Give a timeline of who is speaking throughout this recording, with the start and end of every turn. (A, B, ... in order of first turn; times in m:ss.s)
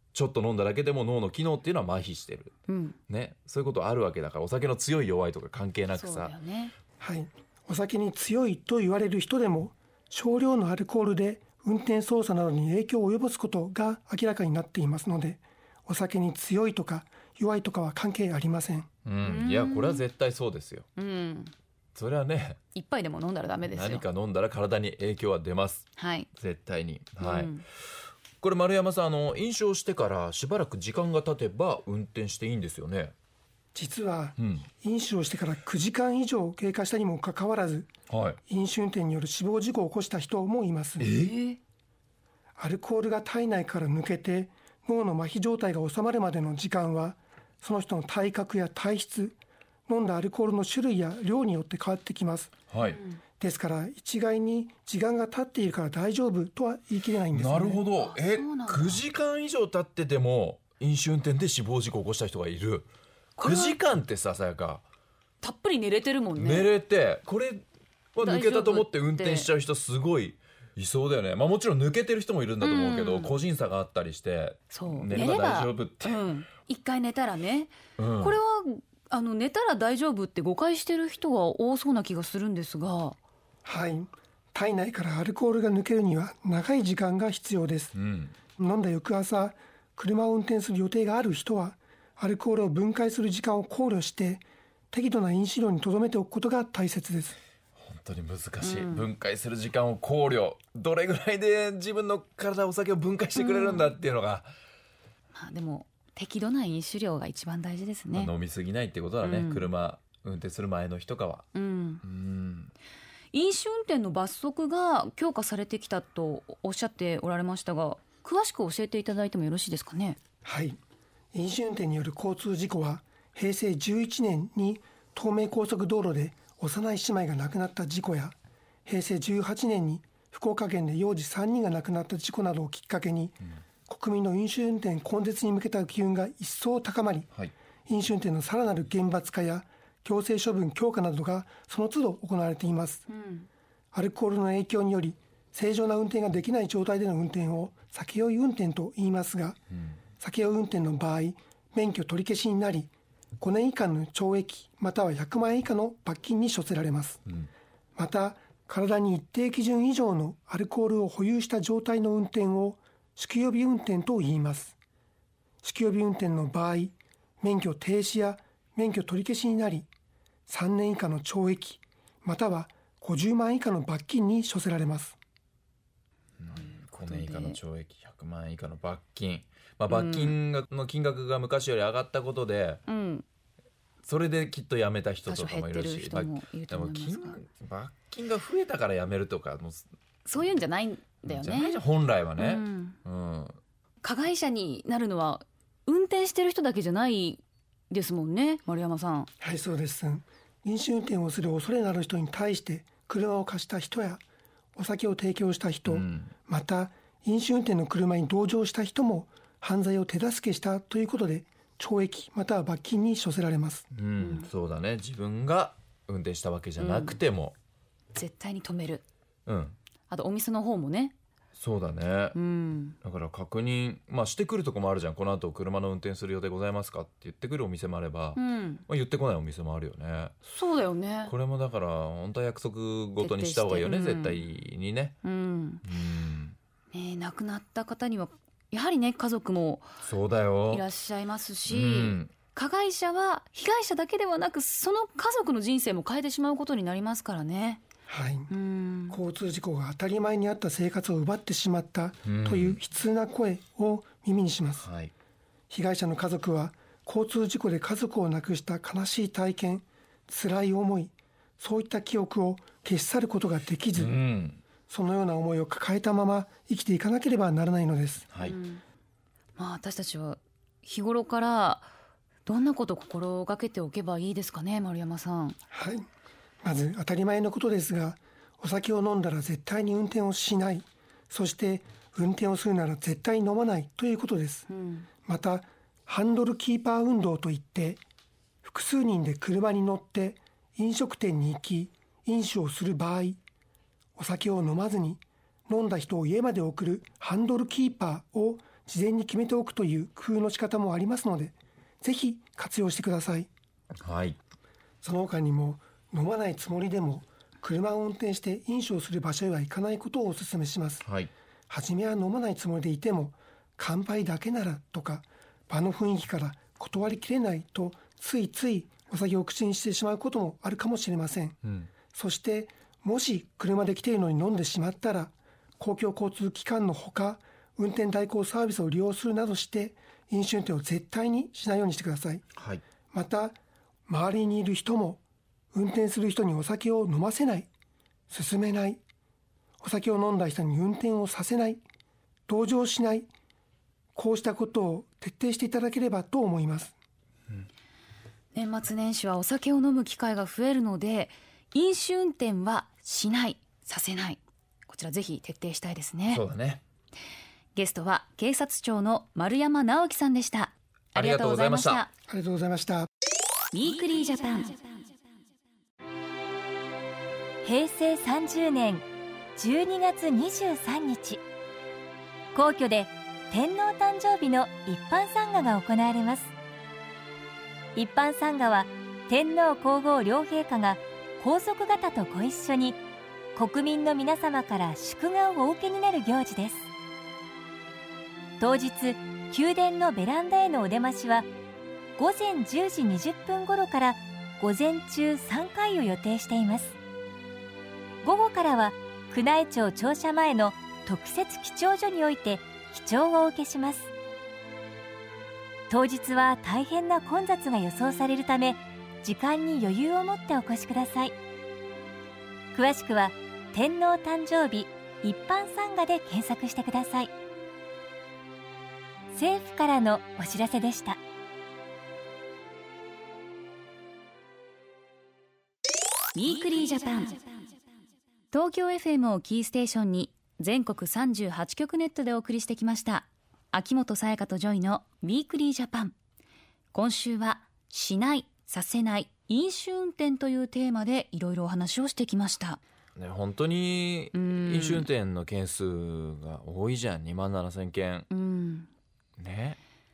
0:00.1-0:02.5 A
0:02.7-0:03.0 B
0:03.1-0:06.3 A
0:05.9-0:06.7 B
0:07.0-0:18.9 C
0:19.0-0:20.8 A
0:19.2-0:20.0 B
0:21.0-0:21.5 B
0:21.9-0:22.6 A
0:22.7-0:24.0 B
0:23.7-0:27.6 A
0:26.0-0:26.3 B
0:27.2-0:27.6 B
0:28.4-0:33.1 A
0:33.7-0:37.9 C
0:34.4-0:34.6 A
0:38.1-0:38.4 A
0:38.5-0:41.1 C
0:41.0-0:41.4 A
0:41.1-0:41.6 B
0:42.6-0:52.5 C
0:52.7-0:53.0 A
0:52.9-0:53.2 B
0:53.4-0:57.8 C
0:57.3-1:02.9 A
0:57.9-0:59.0 B
1:03.4-1:03.8 B
1:03.4-1:04.8 A
1:05.4-1:06.7 B
1:06.4-1:07.6 A
1:08.1-1:16.3 A
1:08.2-1:09.5 B
1:12.6-1:13.4 B
1:14.7-1:23.2 B
1:18.0-1:18.4 A
1:23.6-1:27.9 C
1:27.9-1:28.3 A
1:28.6-1:37.4 C
1:37.8-1:44.5 A
1:38.6-1:39.1 B
1:43.3-1:43.9 B
1:45.3-1:48.3 B
1:48.1-1:51.5 A
1:49.2-1:49.7 B
1:51.5-1:52.0 B
1:52.0-1:52.7 A
1:53.3-2:00.2 B
2:00.4-2:00.8 C
2:01.3-2:17.3 C
2:17.9-2:23.1 C
2:23.1-2:23.5 B
2:23.9-2:29.6 C
2:30.2-2:37.2 C
2:38.0-2:44.7 C
2:45.6-2:49.9 C
2:50.5-2:55.2 C
2:56.4-3:02.8 A
2:57.0-2:57.6 B
2:59.9-3:00.4 B
3:02.9-3:03.2 B
3:04.0-3:09.8 A
3:05.2-3:07.4 B
3:10.2-3:11.8 B
3:11.2-3:13.6 A
3:12.4-3:13.0 B
3:14.0-3:19.3 B
3:19.4-3:24.2 C
3:24.8-3:33.8 C
3:25.8-3:26.3 A
3:33.9-3:37.6 A
3:34.2-3:34.5 B
3:36.8-3:37.2 B
3:38.1-3:39.0 B
3:39.5-3:39.8 A
3:40.1-3:41.1 B
3:41.6-3:42.4 A
3:42.3-3:43.0 B
3:43.0-3:50.3 A
3:48.4-3:48.8 B
3:50.4-3:51.3 B
3:51.2-3:55.2 A
3:53.2-3:54.4 B
3:55.2-3:55.8 B
3:55.8-3:56.6 A
3:56.9-3:59.9 B
4:00.0-4:00.8 A
4:00.7-4:07.8 B
4:01.6-4:02.3 A
4:08.1-4:08.5 C
4:08.5-4:09.2 B
4:09.1-4:14.8 C
4:12.2-4:12.8 A
4:14.8-4:15.1 A
4:15.7-4:24.1 C
4:23.9-4:24.6 A
4:24.9-4:28.3 C
4:28.4-4:28.8 B
4:29.6-4:31.9 B
4:32.4-4:35.6 B
4:35.7-4:36.0 C
4:36.6-4:44.7 C
4:44.7-4:45.1 B
4:45.2-4:48.0 C
4:48.6-4:53.4 C
4:54.2-5:03.5 C
5:04.0-5:04.4 A
5:05.0-5:11.0 C
5:11.0-5:11.3 A
5:11.7-5:21.6 C
5:21.6-5:21.9 A
5:22.1-5:32.4 C
5:32.6-5:32.8 A
5:33.1-5:33.6 C
5:34.1-5:35.2 C
5:35.7-5:37.7 C
5:38.3-5:39.0 C
5:39.8-5:41.8 C
5:42.5-5:43.3 C
5:44.1-5:46.9 C
5:48.5-5:56.4 B
5:56.3-5:56.8 A
5:57.7-6:02.1 B
6:01.1-6:02.0 A
6:02.3-6:03.1 C
6:03.7-6:04.8 B
6:07.6-6:11.4 D
6:12.5-6:16.5 D
6:17.9-6:23.0 D
6:23.5-6:26.9 D
6:28.6-6:31.5 D
6:32.2-6:37.0 D
6:38.2-6:44.1 D
6:45.9-6:51.3 D
6:52.7-6:57.3 D
6:59.3-7:01.2 D
7:06.3-7:07.4 B
7:08.5-7:16.1 B
7:16.9-7:22.8 B
7:23.2-7:28.3 A
7:24.3-7:25.1 B
7:28.3-7:28.9 B
7:29.4-7:29.8 A